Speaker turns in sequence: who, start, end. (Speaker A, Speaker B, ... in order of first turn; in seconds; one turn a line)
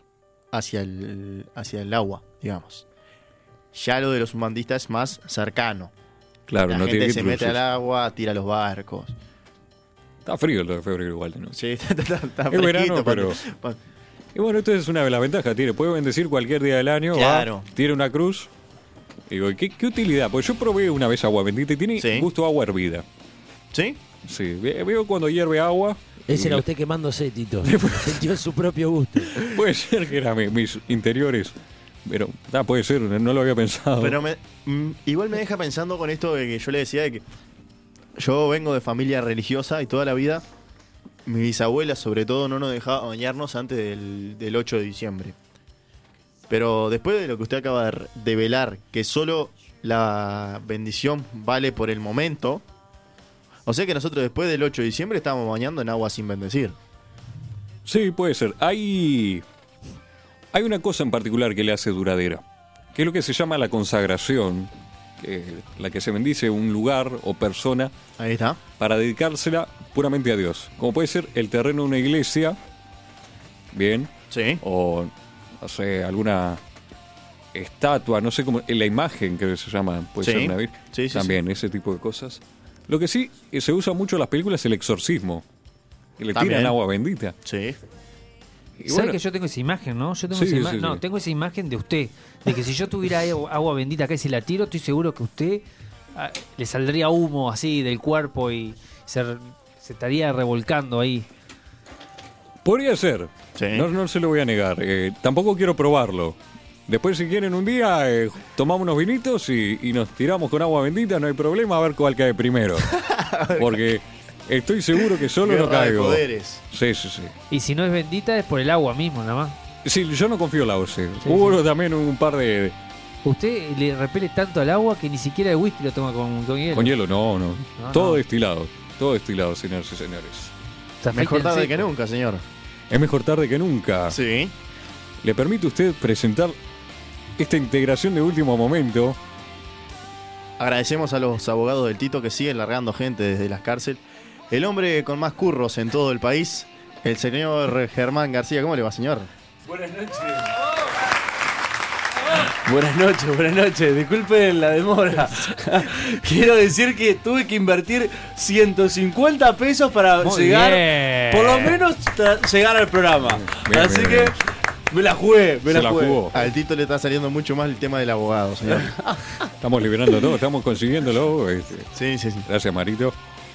Speaker A: 0.5-2.9
Speaker A: 3.7-5.9
Speaker B: 6.5-7.6
Speaker A: 6.7-9.2
Speaker B: 10.3-11.6
Speaker A: 11.5-13.8
Speaker B: 12.5-13.4
Speaker B: 14.3-18.5
Speaker A: 17.1-17.7
Speaker B: 19.3-23.1
Speaker A: 22.0-22.3
Speaker A: 23.7-24.0
Speaker B: 24.2-26.6
Speaker C: 26.3-29.4
Speaker B: 27.6-28.3
Speaker B: 29.4-34.2
Speaker A: 34.0-37.2
Speaker A: 38.2-40.4
Speaker A: 41.3-45.4
Speaker A: 46.5-52.6
Speaker A: 53.7-56.8
Speaker B: 57.9-59.4
Speaker B: 60.5-62.4
Speaker B: 62.9-67.9
Speaker A: 68.2-68.6
Speaker B: 68.8-72.6
Speaker B: 73.7-76.6
Speaker A: 74.3-74.6
Speaker B: 77.5-85.4
Speaker A: 80.2-81.4
Speaker B: 86.2-87.3
Speaker A: 86.3-86.8
Speaker A: 87.4-87.8
Speaker B: 88.8-89.2
Speaker D: 88.9-101.3
Speaker B: 90.3-91.0
Speaker B: 102.6-113.0
Speaker A: 103.6-103.9
Speaker A: 112.9-113.8
Speaker B: 113.6-117.3
Speaker A: 115.4-116.6
Speaker D: 117.5-119.6
Speaker B: 119.8-122.8
Speaker D: 121.2-121.6
Speaker D: 123.2-126.9
Speaker B: 126.7-130.5
Speaker D: 127.8-128.2
Speaker D: 131.0-131.9
Speaker A: 131.1-132.4
Speaker B: 132.9-134.2
Speaker A: 134.1-134.5
Speaker B: 135.2-136.6
Speaker B: 137.4-139.2
Speaker A: 140.6-149.3
Speaker E: 149.7-150.7
Speaker E: 152.2-164.4
Speaker D: 160.2-161.8
Speaker B: 163.4-164.4
Speaker E: 164.9-166.2
Speaker B: 165.7-166.4
Speaker A: 166.3-168.9
Speaker E: 168.8-169.4
Speaker B: 169.6-171.9
Speaker A: 171.9-172.5
Speaker B: 172.5-173.2